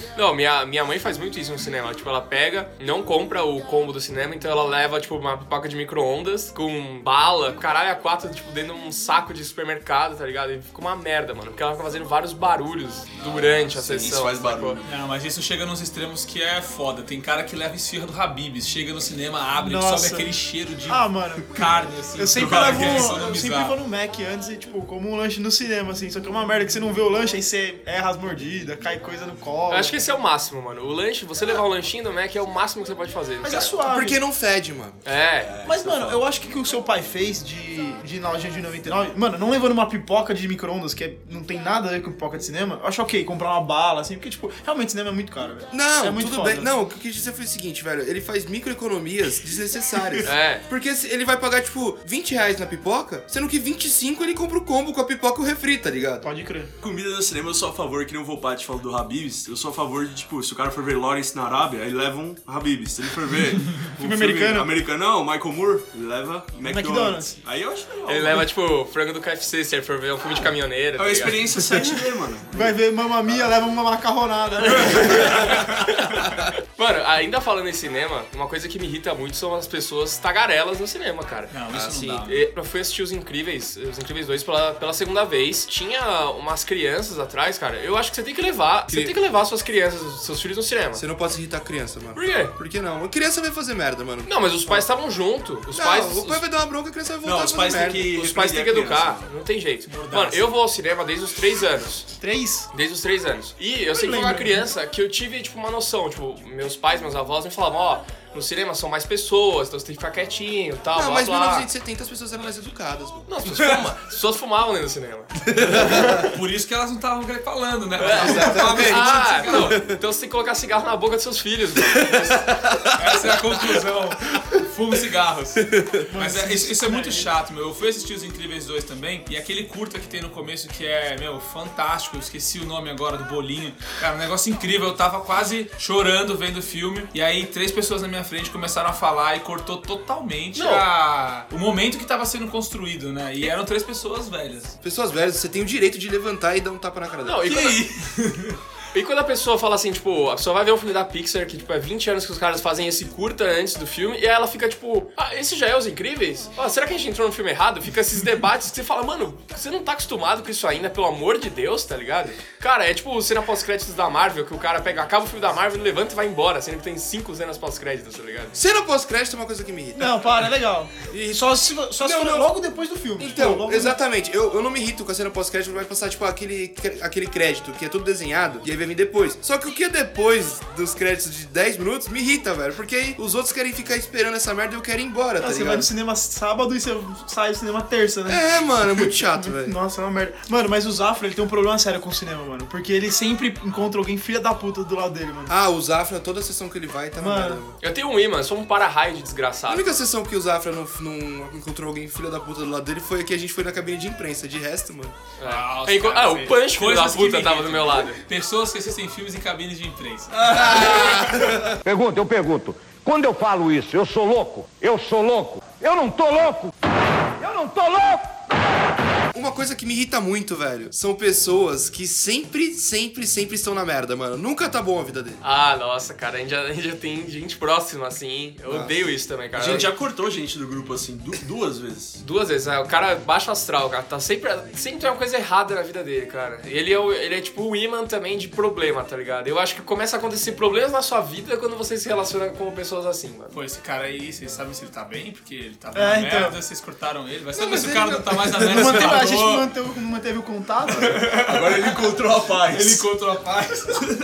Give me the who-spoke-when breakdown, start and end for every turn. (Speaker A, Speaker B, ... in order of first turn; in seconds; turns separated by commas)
Speaker A: 0.2-14.8, Speaker B: 13.1-14.9, Speaker C: 14.8-23.8, Speaker D: 19.6-20.3, Speaker D: 20.9-21.6, Speaker D: 22.2-30.0, Speaker B: 22.3-23.2, Speaker A: 29.7-33.8, Speaker D: 33.4-34.2, Speaker E: 33.9-35.0, Speaker A: 35.0-35.5, Speaker B: 35.4-36.2, Speaker D: 35.6-46.7, Speaker E: 45.7-56.3, Speaker A: 50.2-50.6, Speaker D: 56.2-56.7, Speaker B: 56.8-68.5, Speaker D: 64.0-64.7, Speaker D: 66.7-67.4, Speaker A: 68.1-71.4, Speaker B: 71.0-73.5, Speaker D: 72.5-75.4, Speaker A: 74.6-91.0, Speaker C: 81.5-82.5, Speaker E: 81.7-82.2, Speaker E: 88.9-89.2, Speaker E: 91.0-94.9, Speaker A: 92.2-92.5, Speaker A: 94.3-96.5, Speaker E: 95.7-98.1, Speaker B: 97.2-99.3, Speaker A: 98.1-102.1, Speaker C: 99.9-100.5, Speaker D: 102.2-102.7, Speaker A: 102.7-111.7, Speaker D: 103.9-104.6, Speaker E: 110.9-113.9, Speaker A: 113.3-116.3, Speaker E: 115.5-116.3, Speaker C: 116.2-119.8, Speaker A: 118.0-122.5, Speaker E: 118.2-120.0, Speaker D: 118.4-118.6, Speaker E: 122.0-123.2, Speaker C: 122.9-144.8, Speaker E: 125.7-126.0, Speaker D: 126.1-127.3, Speaker A: 140.5-140.8, Speaker E: 144.8-147.5, Speaker A: 147.2-147.8, Speaker C: 147.5-148.6, Speaker A: 148.9-168.5, Speaker E: 168.5-170.2, Speaker D: 170.0-174.0, Speaker E: 172.0-172.5, Speaker E: 173.2-185.9, Speaker D: 185.4-195.5, Speaker E: 188.3-189.8, Speaker E: 195.5-197.8, Speaker D: 197.2-197.6, Speaker A: 197.8-200.0, Speaker E: 199.7-205.2, Speaker A: 205.4-208.2, Speaker C: 205.4-211.5, Speaker E: 210.5-211.8, Speaker F: 211.8-216.7, Speaker F: 217.4-218.3, Speaker E: 219.3-225.4, Speaker A: 225.4-229.9, Speaker E: 228.7-229.1, Speaker B: 229.5-232.2, Speaker A: 232.2-243.5, Speaker C: 243.5-249.7, Speaker D: 245.9-246.5, Speaker E: 247.5-249.2, Speaker D: 248.6-251.3, Speaker C: 250.9-252.1, Speaker B: 251.4-253.1, Speaker C: 252.7-254.1